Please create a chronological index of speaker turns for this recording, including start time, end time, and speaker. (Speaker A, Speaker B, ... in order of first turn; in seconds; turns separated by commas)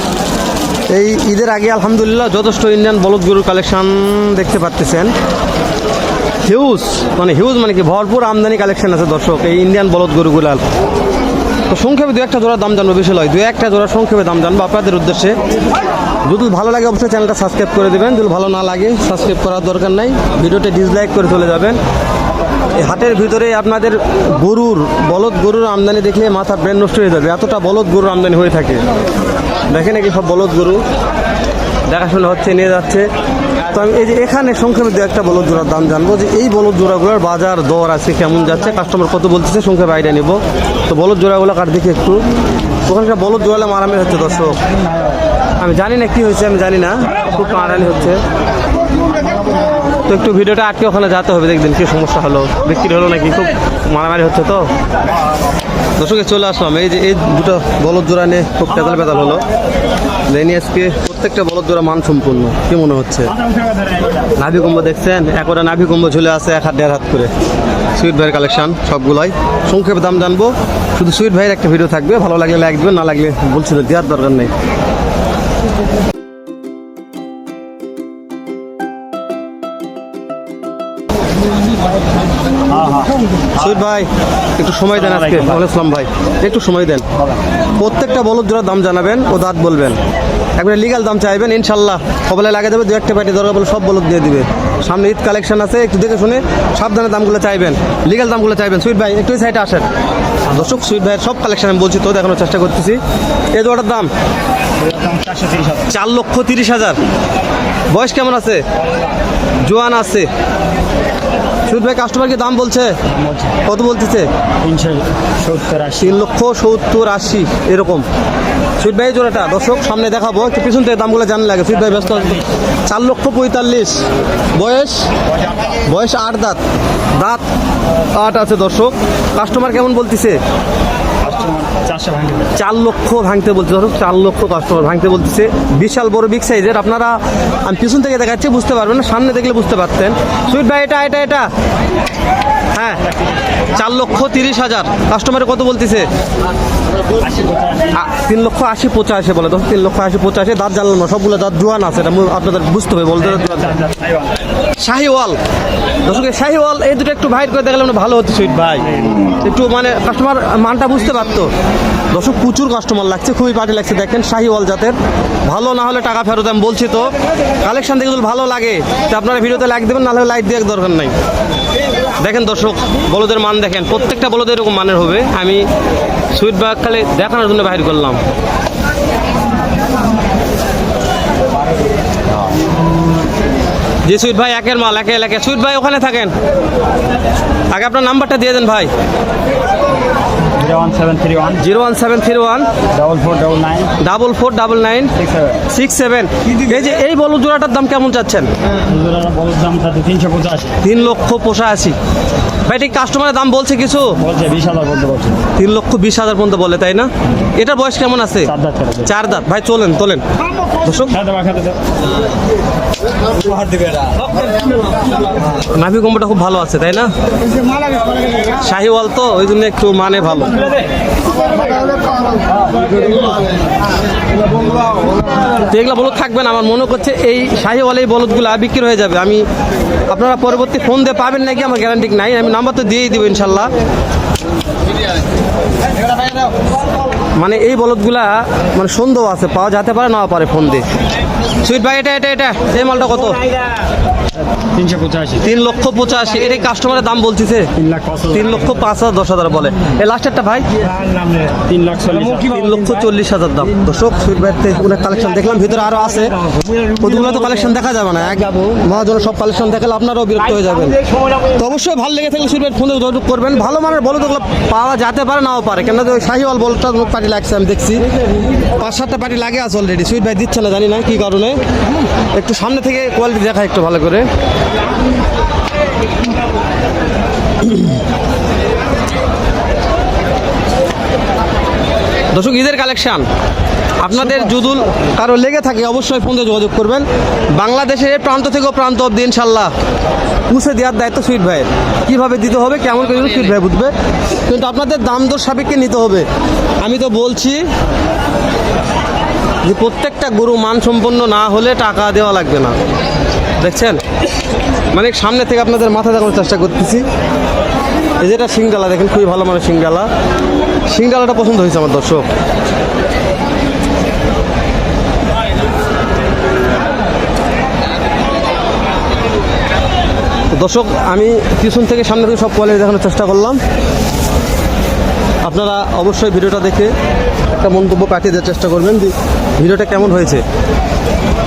Speaker A: 0.9-5.1, Speaker A: 6.4-10.6, Speaker A: 11.7-15.4, Speaker A: 16.2-21.8, Speaker A: 22.8-28.8, Speaker A: 29.7-30.8, Speaker A: 31.9-33.1, Speaker A: 33.7-42.2, Speaker A: 42.9-44.6, Speaker A: 45.6-48.2, Speaker A: 50.0-54.7, Speaker A: 56.0-59.4, Speaker A: 60.3-63.3, Speaker B: 63.3-64.3, Speaker A: 64.4-67.3, Speaker A: 67.9-74.5, Speaker B: 82.7-83.2, Speaker A: 83.6-87.0, Speaker B: 84.9-85.7, Speaker B: 87.2-87.4, Speaker A: 87.8-90.0, Speaker A: 90.5-99.8, Speaker A: 100.5-103.0, Speaker A: 103.5-104.1, Speaker B: 104.8-105.9, Speaker A: 105.9-107.0, Speaker A: 107.9-108.6, Speaker A: 109.6-110.3, Speaker A: 111.7-112.9, Speaker B: 113.1-113.6, Speaker A: 113.6-114.3, Speaker B: 114.6-116.2, Speaker A: 116.0-118.0, Speaker A: 118.8-124.0, Speaker A: 124.5-125.1, Speaker A: 125.7-126.6, Speaker A: 128.0-130.4, Speaker B: 131.2-132.5, Speaker A: 132.5-141.5, Speaker A: 142.7-143.0, Speaker A: 143.7-146.1, Speaker B: 147.1-147.9, Speaker A: 147.9-153.7, Speaker B: 153.2-154.4, Speaker A: 154.8-155.4, Speaker A: 156.0-158.9, Speaker A: 159.4-161.5, Speaker A: 162.1-171.1, Speaker A: 172.2-175.6, Speaker A: 176.3-178.2, Speaker A: 184.1-186.3, Speaker A: 187.7-188.9, Speaker B: 190.5-191.7, Speaker A: 191.6-192.7, Speaker B: 192.9-193.9, Speaker A: 194.0-195.1, Speaker B: 195.2-195.6, Speaker A: 195.7-198.5, Speaker B: 198.8-200.8, Speaker A: 200.8-201.9, Speaker A: 202.7-204.2, Speaker B: 204.2-205.4, Speaker A: 205.6-208.5, Speaker B: 208.4-209.1, Speaker A: 209.0-210.2, Speaker A: 210.8-211.1, Speaker B: 211.1-211.8, Speaker B: 213.3-214.2, Speaker A: 215.5-217.1, Speaker A: 218.6-220.6, Speaker A: 225.6-229.4, Speaker A: 230.1-233.7, Speaker A: 237.4-240.8, Speaker A: 241.6-243.4, Speaker B: 244.6-245.5, Speaker A: 245.4-247.7, Speaker B: 247.8-248.8, Speaker A: 248.3-250.7, Speaker B: 250.9-252.7, Speaker A: 252.5-256.4, Speaker A: 256.9-268.0, Speaker A: 268.7-271.6, Speaker A: 272.3-274.2, Speaker A: 282.3-283.2, Speaker A: 284.0-289.7, Speaker A: 290.5-293.9, Speaker A: 294.4-296.2, Speaker A: 296.8-297.6, Speaker A: 299.6-302.7, Speaker A: 303.6-304.0, Speaker A: 304.9-307.0, Speaker A: 308.2-310.1, Speaker A: 310.9-312.2, Speaker A: 320.5-323.6, Speaker A: 325.4-326.9, Speaker A: 327.5-330.4